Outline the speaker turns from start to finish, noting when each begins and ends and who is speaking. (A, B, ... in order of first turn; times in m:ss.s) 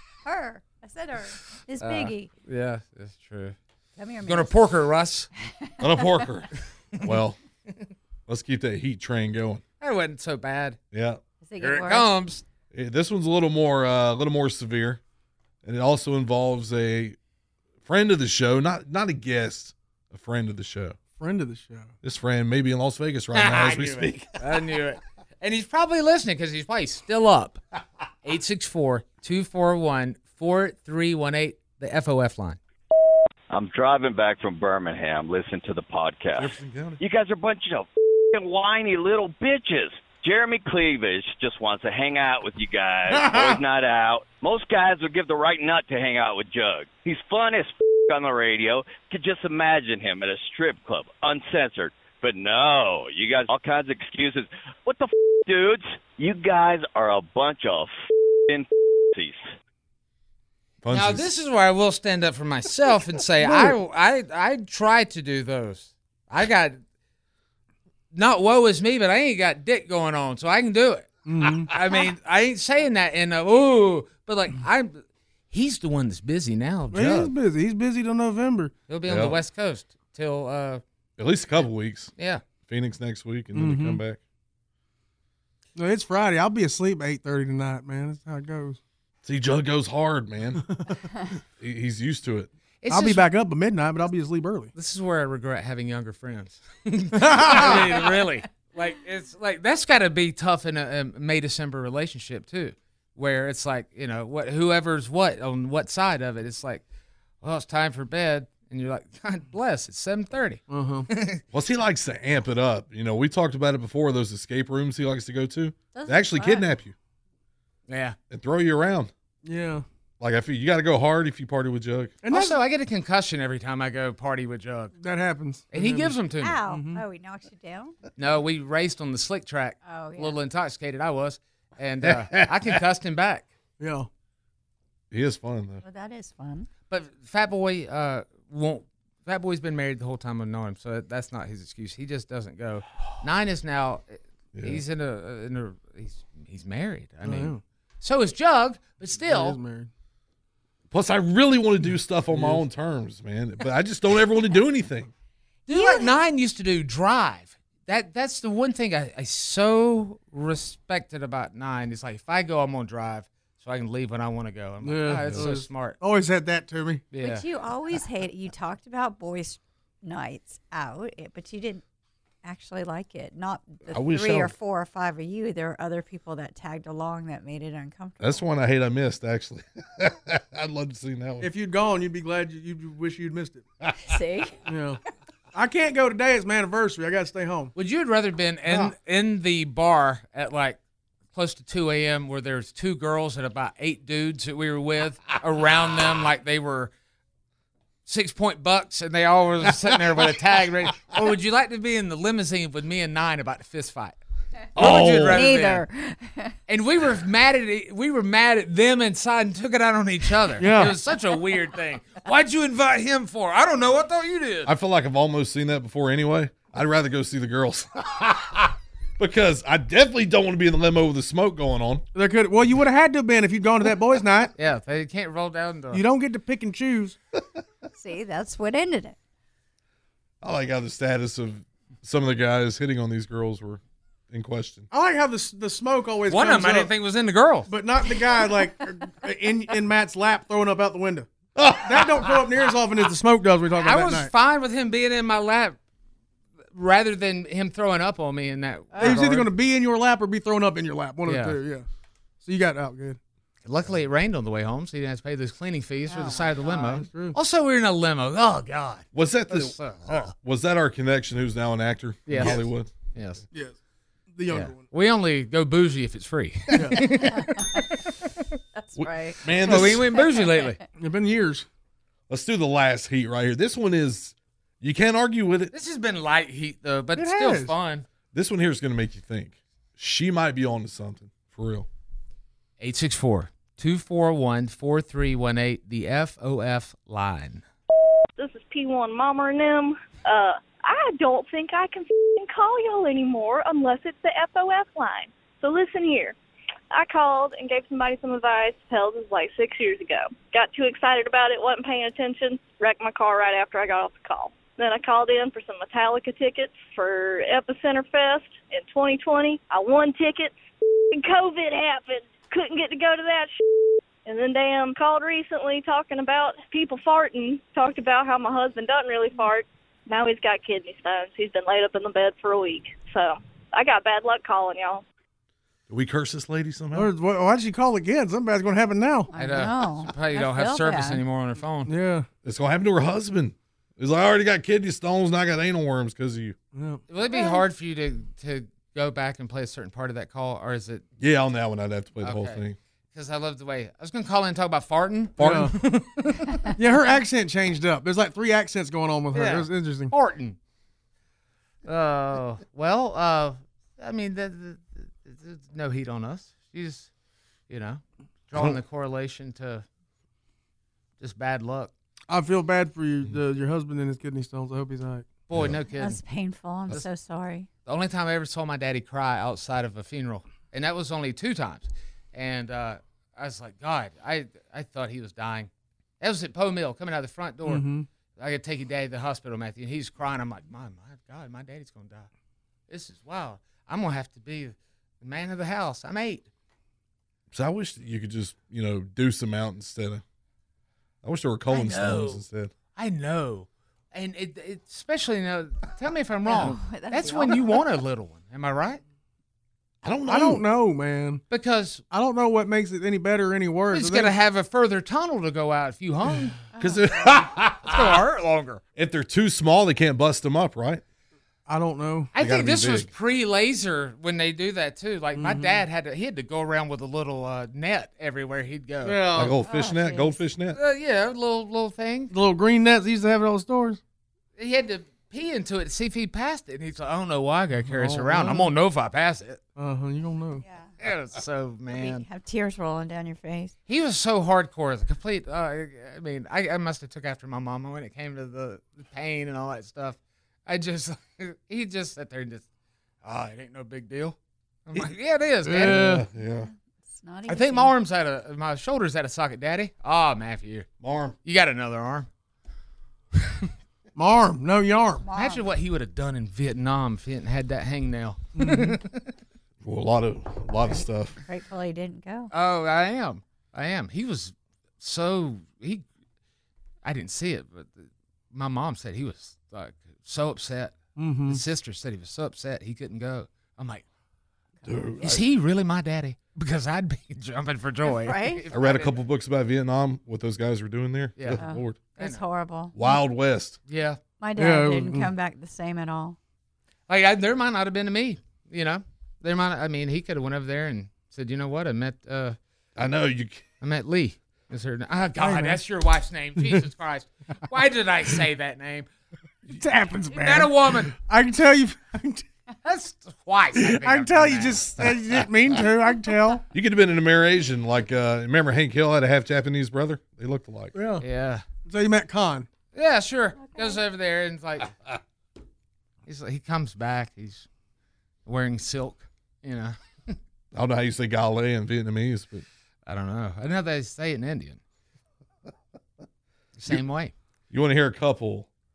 0:00.2-0:02.3 A
0:01.8-0:03.6 B
0:04.0-0:04.5 A
0:04.3-0:05.3 B
0:05.8-0:06.2 A
0:05.8-0:06.5 C
0:07.0-0:07.4 C
0:08.3-0:09.6 C
0:09.8-0:10.8 B
0:10.9-0:11.2 C
0:11.4-0:12.2 A
0:11.6-0:12.4 B
0:12.7-0:15.0 C
0:15.6-0:17.2 C
0:17.9-0:21.0 C
0:21.2-0:21.9 D
0:22.0-0:24.3 C
0:23.3-0:27.6 B
0:28.2-0:32.6 B
0:33.5-0:57.9 E
0:36.4-0:37.0 C
0:43.1-0:43.6 D
0:58.5-0:59.5 E
1:00.8-1:01.3 C
1:00.9-1:06.8 B
1:03.4-1:03.8 D
1:08.1-1:17.3 B
1:11.3-1:11.7 D
1:16.9-1:18.7 D
1:18.9-1:20.8 B
1:19.1-1:19.4 C
1:21.2-1:22.1 C
1:22.2-1:22.4 B
1:22.7-1:24.2 C
1:23.5-1:24.0 D
1:25.8-1:28.8 D
1:29.2-1:30.7 C
1:31.6-1:32.5 C
1:32.8-1:33.3 B
1:32.9-1:34.7 D
1:34.8-1:46.8 B
1:37.2-1:38.0 D
1:47.4-1:51.4 B
1:50.7-1:51.1 D
1:51.5-1:56.9 C
1:55.9-1:56.7 A
1:57.9-1:58.2 B
1:58.3-1:59.1 C
1:59.4-1:59.8 D
2:00.2-2:02.1 C
2:02.2-2:02.6 D
2:02.3-2:04.9 B
2:05.0-2:07.0 D
2:05.7-2:06.6 B
2:06.4-2:08.0 A
2:08.2-2:13.5 B
2:09.8-2:10.4 A
2:12.1-2:12.5 C
2:13.8-2:14.1 D
2:15.1-2:15.8 C
2:15.8-2:16.7 A
2:16.9-2:29.6 B
2:24.6-2:24.8 C
2:27.2-2:27.6 D
2:29.2-2:29.9 D
2:30.9-2:35.1 C
2:32.3-2:32.6 D
2:35.7-2:46.0 B
2:35.7-2:36.1 A
2:44.8-2:47.0 D
2:47.1-2:47.5 B
2:47.2-2:51.8 A
2:52.4-2:58.4 A
2:53.9-2:54.6 C
2:58.2-3:01.5 C
3:01.4-3:03.6 D
3:04.1-3:04.6 A
3:04.7-3:05.0 D
3:05.5-3:07.7 D
3:07.8-3:10.8 B
3:08.7-3:08.9 D
3:11.3-3:16.9 B
3:18.1-3:24.2 B
3:24.8-3:25.5 C
3:24.8-3:25.9 B
3:25.3-3:26.5 A
3:26.7-3:34.7 B
3:30.6-3:31.0 D
3:34.7-3:42.0 C
3:42.2-3:44.5 D
3:44.6-3:46.0 B
3:45.9-3:47.2 D
3:48.0-3:49.2 A
3:50.4-3:54.9 C
3:54.9-3:56.9 D
3:56.3-3:57.7 B
3:57.7-4:01.3 D
4:01.6-4:02.4 C
4:01.8-4:04.3 D
4:03.8-4:05.8 B
4:06.7-4:09.5 B
4:08.9-4:09.2 A
4:09.0-4:11.9 D
4:11.3-4:11.6 B
4:12.4-4:13.2 D
4:13.6-4:20.3 B
4:16.1-4:16.9 A
4:16.9-4:17.4 D
4:19.1-4:19.8 C
4:20.3-4:22.9 C
4:22.3-4:23.4 B
4:24.3-4:24.8 D
4:24.5-4:27.7 B
4:26.7-4:27.0 D
4:27.2-4:27.8 A
4:28.8-4:30.7 A
4:29.0-4:30.1 C
4:29.6-4:30.8 B
4:31.0-4:31.7 D
4:32.3-4:35.7 C
4:35.7-4:38.1 B
4:37.2-4:37.7 D
4:38.3-4:41.9 C
4:42.8-4:47.6 B
4:48.4-4:56.4 F
4:56.9-5:10.6 F
5:11.1-5:13.5 F
5:14.2-5:25.0 F
5:25.9-5:27.1 C
5:26.9-5:29.3 D
5:29.3-5:31.2 A
5:29.4-5:31.9 B
5:31.9-5:32.3 D
5:32.4-5:36.6 C
5:36.7-5:37.0 D
5:37.1-5:41.0 B
5:37.3-5:37.6 A
5:41.2-5:42.8 C
5:42.2-5:46.6 B
5:45.4-5:45.7 C
5:45.4-5:45.8 D
5:46.8-5:50.1 D
5:49.3-5:50.6 B
5:51.9-5:57.1 B
5:57.7-5:59.8 B
6:01.2-6:01.9 B
6:02.3-6:05.3 D
6:05.5-6:06.2 B
6:05.9-6:07.7 A
6:07.9-6:15.7 B
6:16.2-6:17.8 B
6:17.7-6:18.1 D
6:18.4-6:22.3 B
6:22.9-6:26.5 B
6:27.5-6:30.2 C
6:31.2-6:32.7 C
6:31.7-6:32.4 B
6:33.0-6:39.0 B
6:36.4-6:37.8 A
6:40.0-6:40.6 C
6:40.3-6:41.4 D
6:41.5-6:42.0 B
6:42.1-6:44.4 D
6:43.9-6:46.6 B
6:46.8-6:48.2 C
6:47.8-6:48.8 B
6:49.0-6:51.0 C
6:51.7-6:52.3 D
6:52.3-6:59.2 B
6:52.4-6:53.1 C
6:55.4-6:55.8 D
6:59.0-6:59.5 D
6:59.3-7:00.8 C
6:59.6-7:00.4 A
7:00.7-7:02.3 B
7:02.3-7:04.0 D
7:04.6-7:09.6 B
7:07.9-7:08.7 D
7:09.8-7:10.6 D
7:10.6-7:10.9 A
7:11.0-7:12.3 B
7:11.9-7:13.7 A
7:13.9-7:22.6 B
7:23.2-7:26.1 B
7:25.6-7:26.3 D
7:25.8-7:26.7 C
7:26.6-7:27.9 A
7:27.5-7:30.9 B
7:31.0-7:31.4 C
7:31.4-7:32.3 B
7:34.2-7:35.3 D
7:35.2-7:35.6 A
7:35.3-7:39.3 B
7:38.6-7:39.0 D
7:39.8-7:41.4 C
7:40.8-7:42.5 A
7:42.5-7:46.0 B
7:47.0-7:54.0 B
7:51.2-7:51.6 D
7:54.8-7:55.4 C
7:55.2-7:59.2 B
7:58.0-7:58.6 A
7:58.7-8:02.0 C
8:01.4-8:01.6 B
8:01.6-8:03.2 A
8:02.2-8:02.4 B
8:02.9-8:03.8 C
8:03.9-8:04.2 B
8:04.4-8:06.4 A
8:04.6-8:05.3 D
8:07.1-8:12.6 B
8:13.0-8:13.6 C
8:13.8-8:19.1 B
8:15.4-8:15.8 D
8:19.7-8:22.5 D
8:20.3-8:21.1 B
8:22.8-8:24.9 B
8:23.8-8:26.6 D
8:26.7-8:31.0 C
8:30.9-8:31.2 D
8:31.2-8:31.6 B
8:31.9-8:32.7 D
8:32.9-8:34.9 B
8:33.6-8:34.0 A
8:36.3-8:37.7 B
8:38.5-8:40.4 B
8:40.7-8:42.6 C
8:43.1-8:44.8 B
8:46.8-8:47.3 B
8:47.7-8:48.7 C